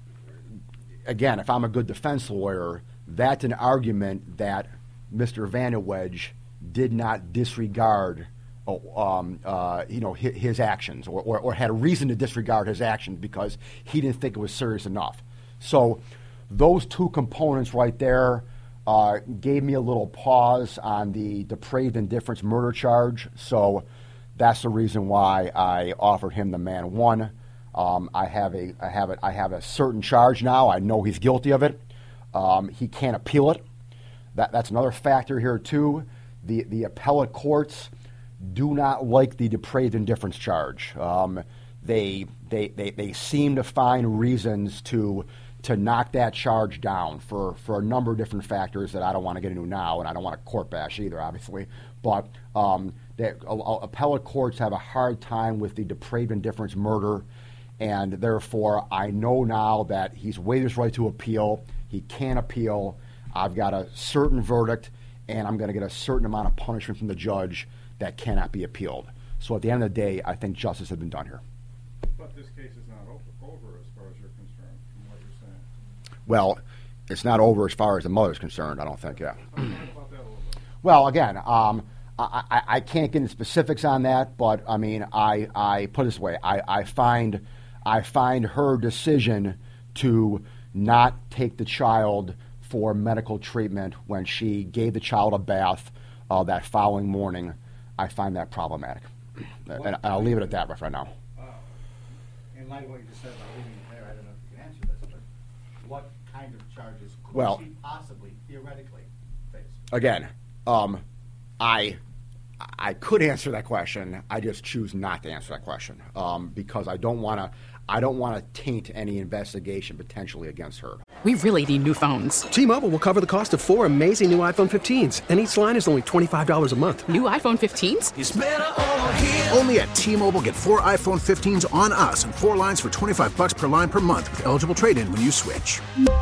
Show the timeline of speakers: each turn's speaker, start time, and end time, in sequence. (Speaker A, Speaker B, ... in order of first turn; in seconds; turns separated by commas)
Speaker A: 1.1-23.8, Speaker A: 24.4-31.8, Speaker A: 32.3-33.6, Speaker A: 34.3-37.9, Speaker A: 38.4-57.2, Speaker A: 57.8-71.4, Speaker B: 72.1-75.7, Speaker A: 76.3-79.7, Speaker B: 79.4-80.6, Speaker A: 80.8-99.1, Speaker A: 99.6-101.1, Speaker C: 99.8-100.4, Speaker C: 102.5-105.2, Speaker C: 105.8-109.8, Speaker A: 107.3-107.6, Speaker A: 109.9-111.0, Speaker A: 111.6-112.0, Speaker A: 112.6-121.0, Speaker D: 121.2-122.5, Speaker E: 122.5-127.0, Speaker D: 127.1-128.1, Speaker F: 128.2-135.8